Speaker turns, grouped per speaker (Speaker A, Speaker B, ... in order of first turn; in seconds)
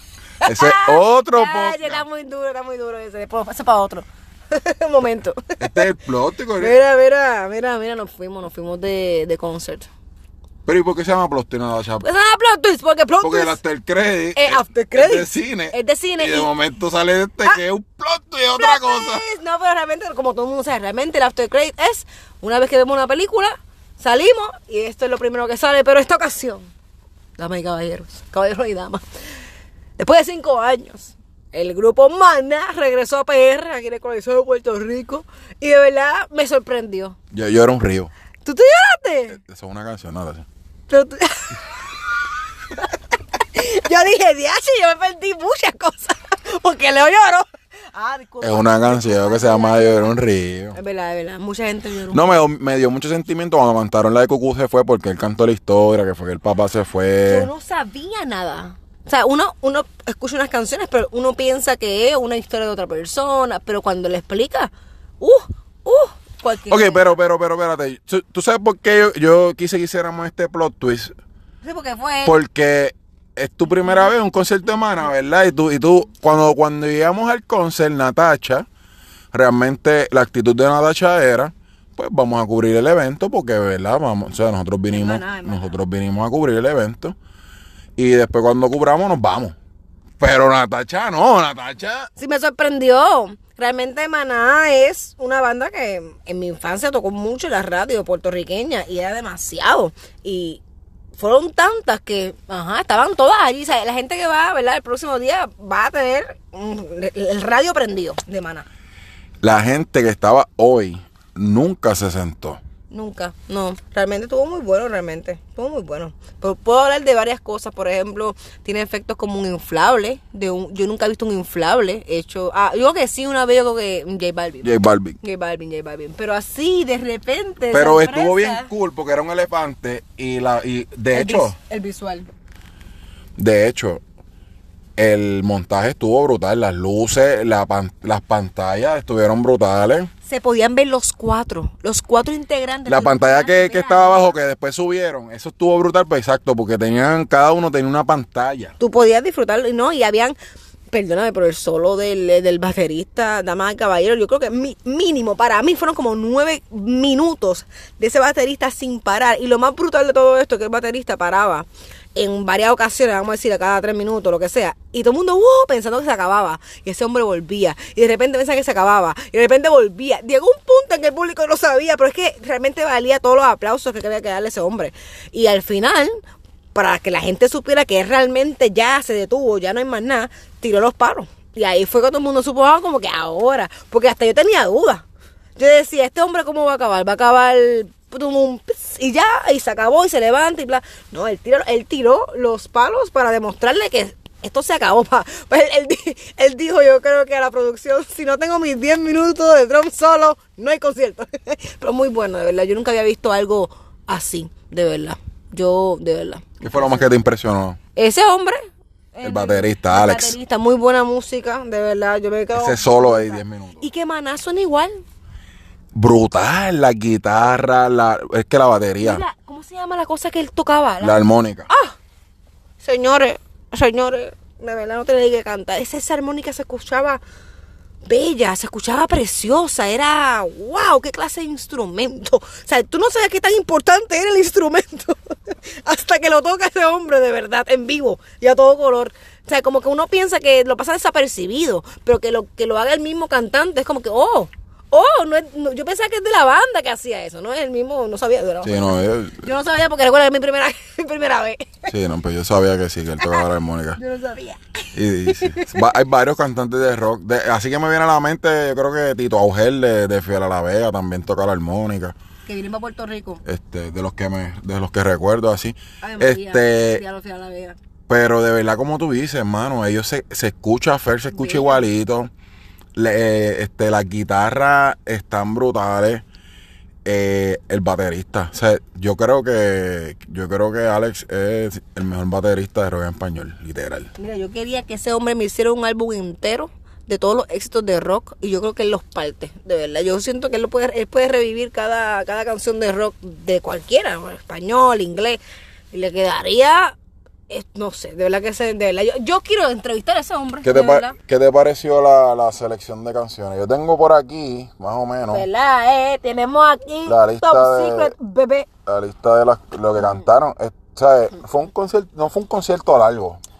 Speaker A: 0.4-5.9, 6.6-9.9, 12.0-13.6, 14.3-16.5, 18.6-26.7, 27.4-29.0, 30.0-37.2, 38.4-39.4, 40.9-41.7, 43.4-50.1, 50.7-52.4, 57.2-67.2, 71.6-72.4, 84.9-85.8, 92.2-100.6, 101.2-108.7, 112.9-128.7, 131.1-132.3, 140.2-144.4, 148.8-150.3, 150.9-176.2, 176.7-185.1, 185.6-207.1, 207.9-208.6, 209.1-215.0, 219.0-221.9, 222.8-227.2, 228.0-251.9, 254.0-255.8, 262.4-263.4, 266.0-267.8, 271.3-271.9, 284.2-295.4, 295.9-296.9, 297.5-301.1, 305.2-308.7, 310.0-310.2
Speaker B: 0.4-2.0, 5.6-6.8, 10.7-12.1, 13.2-19.2, 37.3-38.1, 39.3-40.5, 48.4-50.8, 52.1-57.5, 66.7-71.1, 72.2-78.7, 79.3-87.1, 88.0-89.5, 90.2-92.1, 109.4-112.6, 124.6-125.2, 127.7-131.6, 133.4-134.0, 135.0-140.1, 142.9-148.7, 206.6-207.8, 209.2-210.4, 212.5-213.9, 215.9-219.2, 221.0-221.7, 248.6-249.5, 251.9-254.0, 254.9-262.1, 263.4-267.0, 268.1-272.3, 272.9-276.2, 277.0-284.1, 300.6-305.4, 307.1-308.1, 308.9-313.4